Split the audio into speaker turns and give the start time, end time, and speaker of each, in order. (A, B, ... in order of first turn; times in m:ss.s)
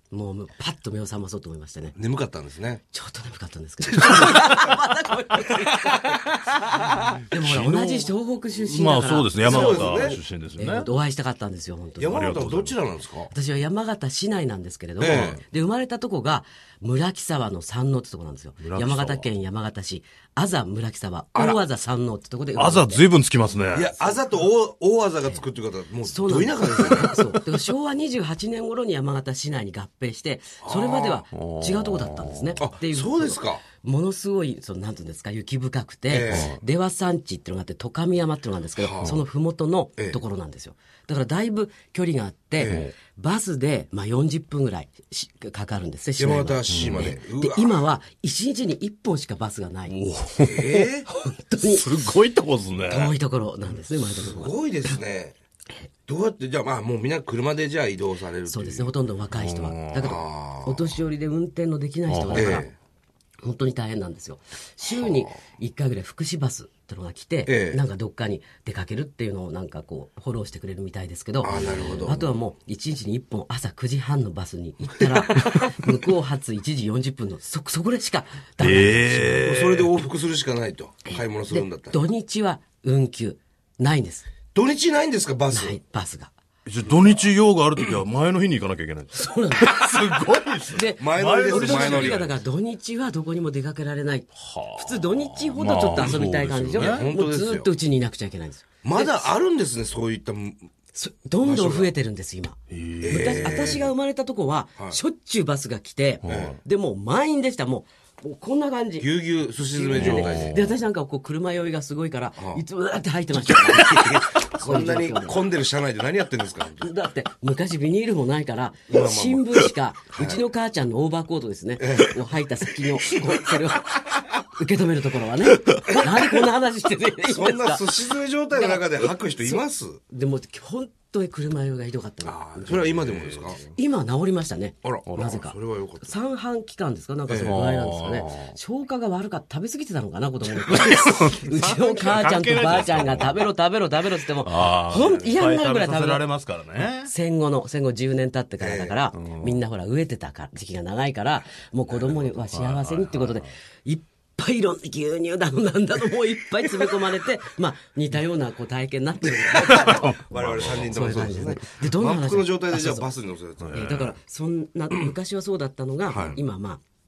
0:00.1-0:02.0 A
0:01.9-0:02.8 B
0:02.9-0:06.5 A
0:04.1-0:04.5 B
0:04.1-0:04.4 C
0:07.3-0:12.4 A
0:07.4-0:07.8 C
0:07.4-0:08.1 B
0:08.7-0:10.9 C
0:09.4-0:10.2 B
0:12.0-0:13.3 B
0:12.1-0:12.8 C
0:13.3-0:23.0 A
0:15.0-0:15.4 B
0:15.1-0:15.4 C
0:18.6-0:19.2 C
0:21.3-0:21.6 B
0:22.6-0:23.9 C
0:23.7-0:27.2 B
0:26.0-0:49.9 A
0:30.6-0:31.2 B
0:31.3-0:32.5 C
0:32.6-0:33.6 B
0:36.1-0:36.5 B
0:36.3-0:36.6 C
0:38.8-0:39.2 B
0:42.6-0:42.9 B
0:42.6-0:42.9 C
0:46.2-0:47.8 B
0:46.7-0:47.1 C
0:49.9-0:50.6 C
0:50.4-0:51.1 B
0:50.5-0:51.9 A
0:51.6-0:53.1 C
0:52.9-0:55.0 A
0:54.2-0:55.3 B
0:56.1-0:58.9 B
0:58.5-1:02.7 A
0:59.3-1:00.2 C
1:00.0-1:00.9 B
1:02.1-1:02.6 C
1:02.3-1:02.7 B
1:03.4-1:19.4 A
1:07.5-1:07.8 B
1:11.4-1:12.3 B
1:11.6-1:12.1 C
1:18.6-1:19.9 C
1:19.3-1:22.0 B
1:21.0-1:24.2 A
1:24.5-1:25.8 B
1:25.5-1:26.3 A
1:26.6-1:32.4 C
1:26.9-1:27.2 B
1:29.1-1:39.3 A
1:31.0-1:32.3 B
1:34.4-1:37.1 C
1:36.7-1:37.7 B
1:38.8-1:40.7 B
1:40.9-1:55.4 A
1:41.4-1:41.9 B
1:42.7-1:43.8 C
1:43.0-1:43.9 B
1:46.2-1:46.5 C
1:46.2-1:46.6 B
1:49.0-1:50.6 B
1:49.9-1:50.7 C
1:52.4-1:52.6 B
1:53.5-1:56.9 B
1:56.8-2:26.3 A
1:58.9-2:00.4 B
2:01.8-2:02.2 B
2:05.9-2:06.2 B
2:07.3-2:10.0 B
2:12.2-2:13.6 B
2:13.0-2:13.6 C
2:14.8-2:16.1 B
2:15.1-2:15.4 C
2:17.3-2:17.6 B
2:17.4-2:18.6 C
2:20.6-2:23.5 C
2:24.4-2:27.1 C
2:25.0-2:25.4 B
2:27.0-2:40.2 A
2:28.6-2:29.0 B
2:29.1-2:29.6 C
2:31.9-2:32.2 B
2:32.2-2:33.4 C
2:39.6-2:44.1 B
2:39.7-2:41.2 C
2:40.7-2:43.1 A
2:43.6-2:44.1 C
2:43.7-2:46.8 A
2:46.1-2:46.4 B